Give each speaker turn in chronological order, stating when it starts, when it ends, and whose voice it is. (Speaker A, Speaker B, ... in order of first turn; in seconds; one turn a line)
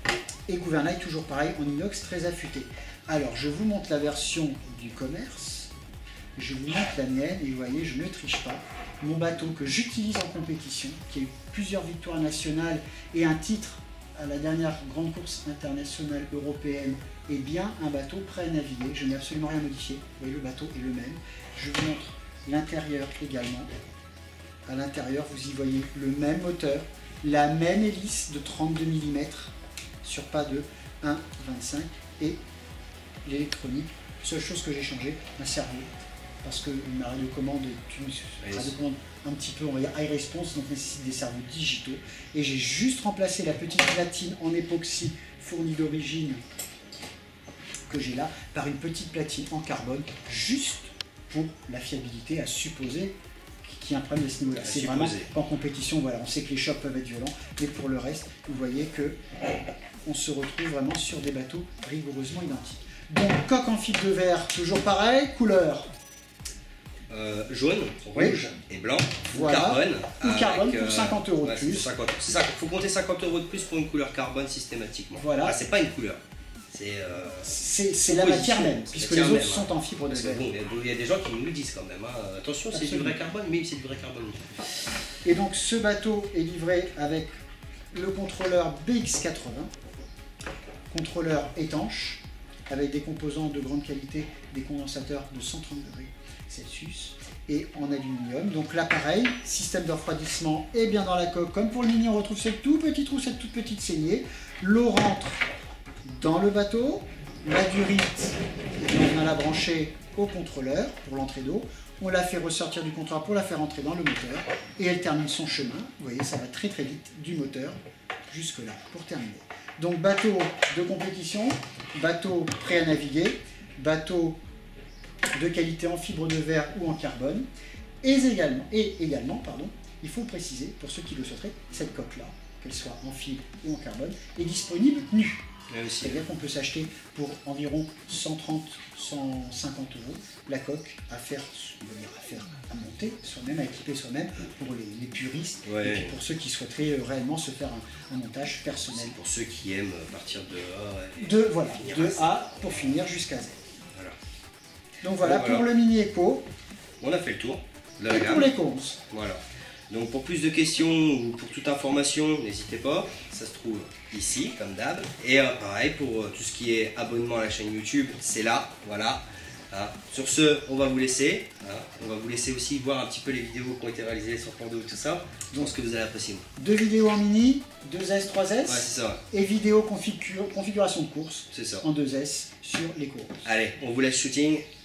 Speaker A: 0.5-5.7
Speaker A: 6.4-23.7
Speaker A: 24.7-29.5
Speaker A: 30.0-32.4
Speaker A: 33.2-35.9
Speaker A: 36.4-46.4
Speaker B: 38.4-38.7
Speaker A: 47.9-53.1
Speaker A: 53.6-59.2
Speaker B: 54.6-55.3
Speaker A: 60.0-65.9
Speaker B: 67.1-76.2
Speaker A: 68.2-68.5
Speaker A: 69.3-71.9
Speaker A: 75.2-75.6
Speaker B: 76.7-77.5
Speaker A: 77.4-80.5
Speaker B: 78.1-84.6
Speaker A: 82.7-83.2
Speaker A: 85.2-87.3
Speaker A: 87.9-89.7
Speaker A: 90.9-105.4
Speaker A: 106.1-117.8
Speaker A: 118.3-124.4
Speaker A: 125.3-127.5
Speaker A: 128.0-135.4
Speaker B: 135.7-136.2
Speaker A: 136.0-149.2
Speaker B: 145.7-146.1
Speaker B: 148.9-152.2
Speaker A: 151.2-153.6
Speaker A: 155.0-156.4
Speaker B: 155.2-155.7
Speaker B: 157.0-158.5
Speaker A: 158.1-159.0
Speaker B: 159.1-176.4
Speaker A: 176.6-183.5
Speaker B: 178.7-179.2
Speaker B: 181.5-181.8
Speaker B: 183.4-184.6